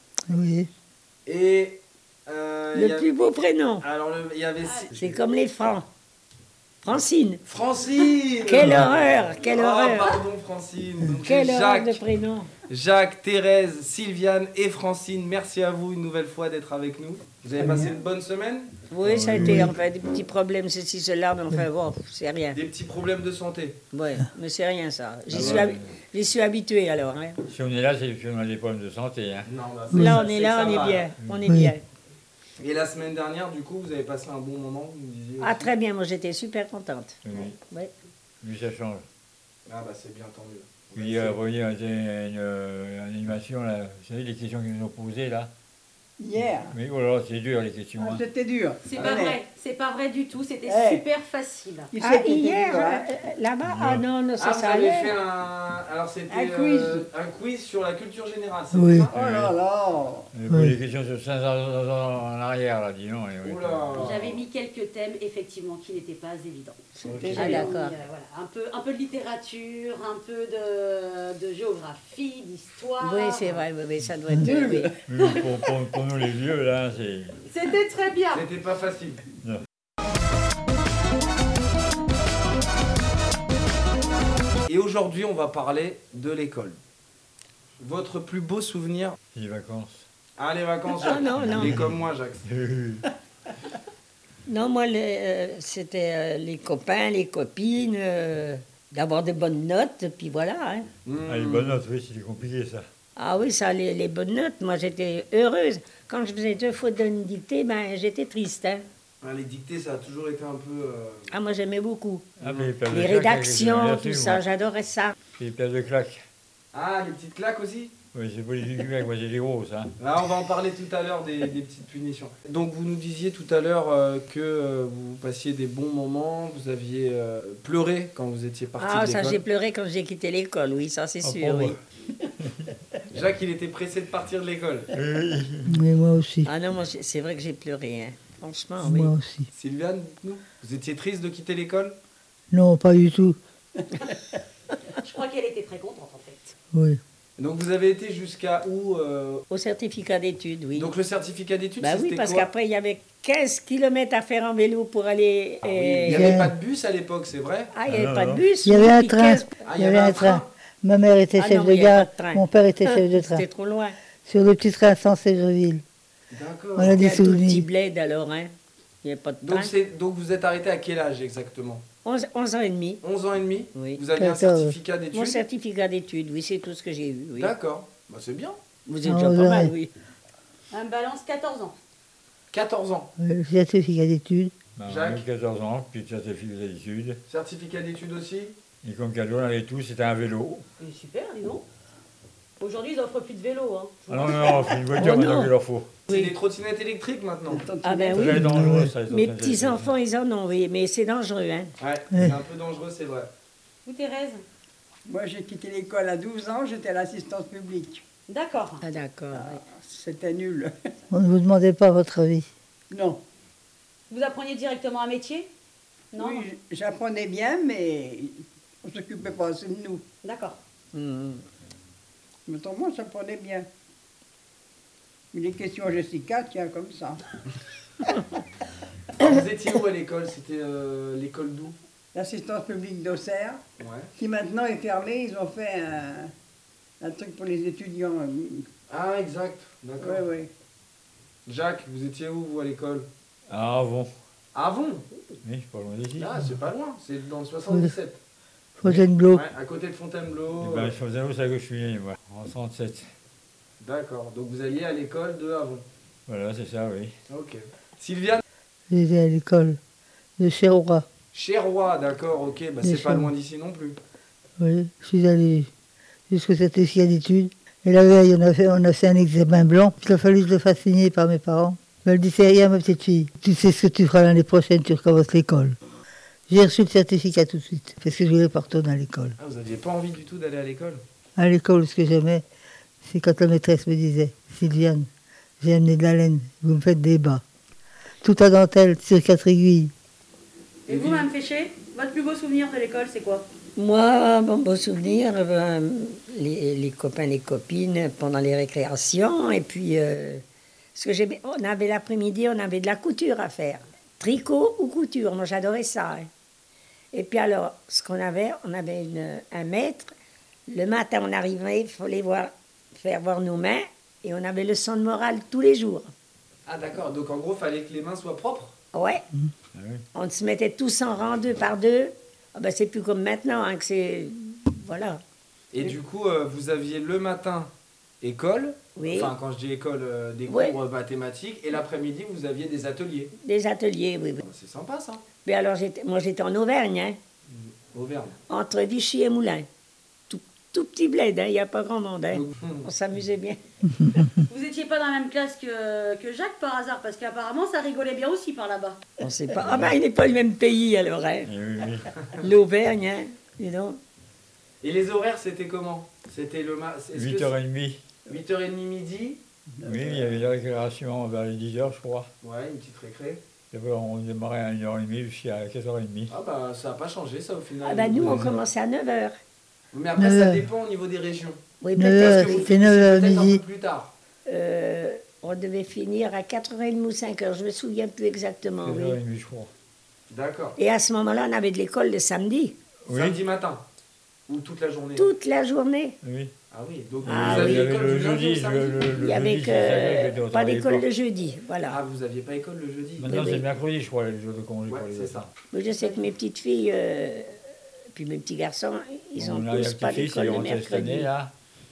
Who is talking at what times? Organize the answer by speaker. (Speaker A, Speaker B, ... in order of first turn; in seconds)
Speaker A: 0.3-0.7, 19.4-19.7, 29.9-30.2, 31.5-31.7, 58.7-59.1, 60.5-60.8, 135.7-136.5, 138.8-139.5, 142.5-143.4, 146.7-147.0, 156.1-156.5, 158.7-163.4, 164.2-165.8, 166.8-167.7, 174.1-174.8, 179.0-179.7, 183.2-184.5, 198.3-198.9, 211.1-212.5, 248.8-249.5, 258.9-259.8, 260.4-261.1, 262.8-263.3, 264.6-265.7, 266.3-275.8, 276.5-279.4, 281.4-282.4, 283.0-285.1, 285.6-287.4, 288.2-289.9, 370.2-370.6, 372.0-373.6
Speaker B: 1.3-3.1, 3.8-5.2, 7.5-12.0, 12.7-18.7, 22.5-23.8, 25.3-25.7, 29.4-31.1, 32.6-35.7, 39.7-41.4, 49.0-49.2, 54.4-59.2, 63.4-64.4, 67.0-67.6, 78.3-79.2, 84.7-86.8, 87.8-89.2, 90.4-92.4, 101.0-101.8, 109.2-111.3, 112.4-112.7, 116.7-118.0, 120.0-129.4, 133.1-134.9, 139.5-142.0, 147.4-149.4, 150.8-152.5, 155.6-157.7, 159.7-160.5, 166.3-167.0, 169.4-171.8, 173.0-175.4, 177.4-178.6, 182.5-183.1, 184.8-185.2, 187.3-188.6, 196.1-197.7, 201.8-203.3, 229.2-231.8, 233.8-234.1, 238.9-240.2, 241.5-243.1, 244.5-245.1, 246.2-248.2, 249.3-250.9, 253.8-255.8, 257.3-258.4, 261.3-264.0, 279.4-281.0, 290.9-291.3, 316.7-318.8, 325.7-333.3, 334.4-335.2, 337.5-338.4, 342.3-342.9, 354.8-357.6, 358.3-359.4, 362.4-363.4, 366.3-368.7, 369.9-374.1, 380.3-380.8, 383.1-383.9, 384.5-385.3, 386.7-389.4, 391.9-393.4, 394.9-395.4
Speaker C: 2.7-3.9, 5.0-5.9, 6.8-7.4, 8.4-10.2, 11.2-12.5, 18.9-22.6, 23.9-27.4, 29.9-31.8, 35.4-37.9, 52.0-55.1, 67.2-68.0, 73.0-74.9, 91.0-91.8, 94.5-100.9, 103.2-108.8, 111.3-112.3, 112.9-115.2, 128.8-131.7, 136.4-139.1, 149.5-150.9, 151.8-156.4, 157.7-159.6, 161.4-164.0, 166.9-169.7, 172.1-173.0, 173.8-174.0, 175.1-177.5, 178.9-179.9, 195.0-195.5, 197.8-198.5, 199.1-201.7, 208.8-209.6, 220.9-221.4, 293.8-300.4, 300.9-306.3, 307.1-310.1, 310.7-316.1, 318.9-319.2, 320.1-325.2, 329.0-329.3, 330.5-330.8, 333.4-334.4, 335.4-337.2, 338.5-339.7, 340.3-343.6, 349.2-351.5, 352.4-354.0, 367.8-369.4, 371.8-372.7, 374.5-379.2, 380.8-382.8, 385.2-386.2, 387.3-387.9, 389.2-392.0, 393.2-393.6, 395.7-397.6, 398.1-401.3
Speaker D: 4.6-4.9, 48.9-51.9, 64.0-73.6, 77.5-78.5, 144.9-146.6, 180.7-181.8, 190.8-191.7, 192.6-194.8, 203.9-204.4, 208.3-208.8, 214.1-215.5, 216.1-216.5, 220.2-220.6, 290.9-293.4, 344.5-349.0
Speaker E: 8.6-8.8, 19.0-19.7, 25.3-25.9, 27.5-29.5, 37.2-37.6, 38.4-39.0, 40.9-45.5, 46.4-48.2, 53.6-54.0, 59.1-59.5, 60.3-64.1, 75.1-77.4, 89.3-90.1, 91.3-93.1, 101.3-102.9, 112.4-114.4, 115.4-116.2, 118.1-119.9, 131.2-131.8, 132.4-132.7, 134.9-135.8, 157.9-158.5, 184.8-187.2, 188.8-190.6, 194.1-196.0, 198.1-199.9, 243.5-244.1, 245.4-246.4, 250.6-253.1, 256.3-257.1, 319.7-320.0, 349.6-350.0, 351.5-352.1, 357.1-358.0, 359.9-362.3, 363.7-366.3, 368.2-368.5, 378.8-379.7, 383.1-383.4, 386.2-386.5, 387.2-391.1, 393.2-395.5, 399.4-401.5
Speaker F: 17.6-17.9, 46.2-46.8, 48.0-49.4, 50.7-51.0, 51.9-53.1, 56.3-57.1, 59.2-60.3, 67.1-67.7, 74.4-75.0, 197.5-198.5, 205.1-208.0, 209.3-210.8, 212.9-213.2, 216.2-220.0, 222.5-223.7, 225.3-227.2, 232.2-233.6, 234.2-236.3, 237.0-238.7, 240.0-240.5, 359.8-360.1